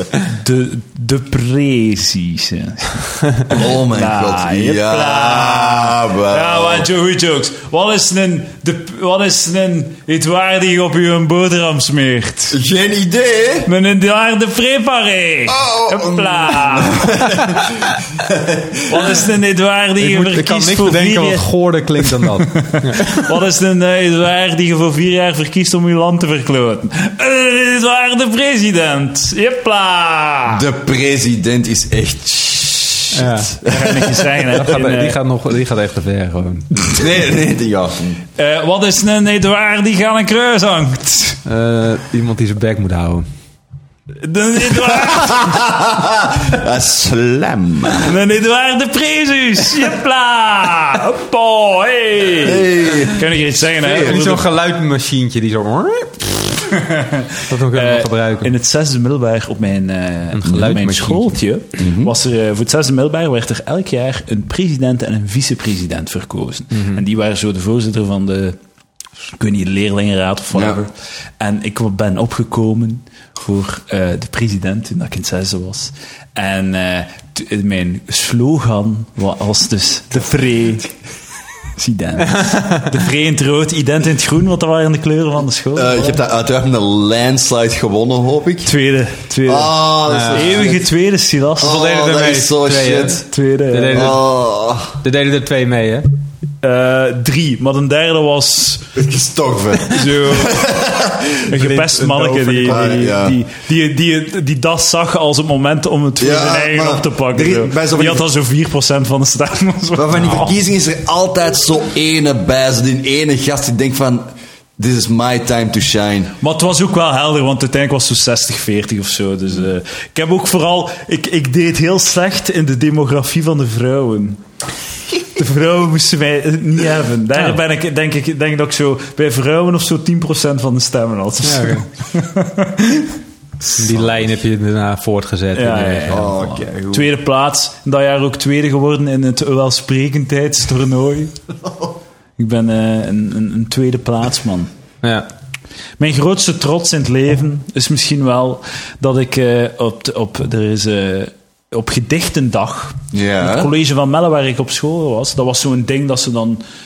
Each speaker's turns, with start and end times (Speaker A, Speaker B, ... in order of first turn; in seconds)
Speaker A: 0.3-12.6, 13.6-17.2, 18.9-21.5, 22.6-30.6, 33.6-35.2, 38.4-41.4, 44.2-45.6, 48.0-54.5, 56.7-68.6, 69.3-80.9, 81.8-86.2, 88.6-89.8, 90.3-91.8, 93.2-94.1, 96.6-98.9, 99.9-100.6, 101.5-110.5, 116.4-124.4, 125.1-133.1, 135.5-141.3, 142.4-144.7, 146.0-156.6
Speaker B: 3.5-6.9, 12.5-13.7, 15.5-19.2, 30.5-34.3, 36.9-38.2, 45.0-48.1, 52.4-53.3, 53.8-54.1, 61.8-62.1, 70.5-70.8, 85.8-88.7, 89.5-90.8, 91.6-93.2, 93.9-95.0, 98.9-101.4, 102.6-103.4, 106.2-108.2, 110.0-116.3, 133.8-134.1, 136.1-137.1, 153.1-153.7
Speaker C: 20.0-23.3, 33.1-33.6, 34.5-36.7, 41.4-43.2, 53.8-56.7, 57.5-58.5, 60.3-61.4, 66.7-67.0, 82.3-82.8, 90.1-90.7, 91.6-94.2, 95.0-96.0, 100.0-100.4, 101.5-103.0, 131.4-131.9, 133.8-136.3, 145.0-145.3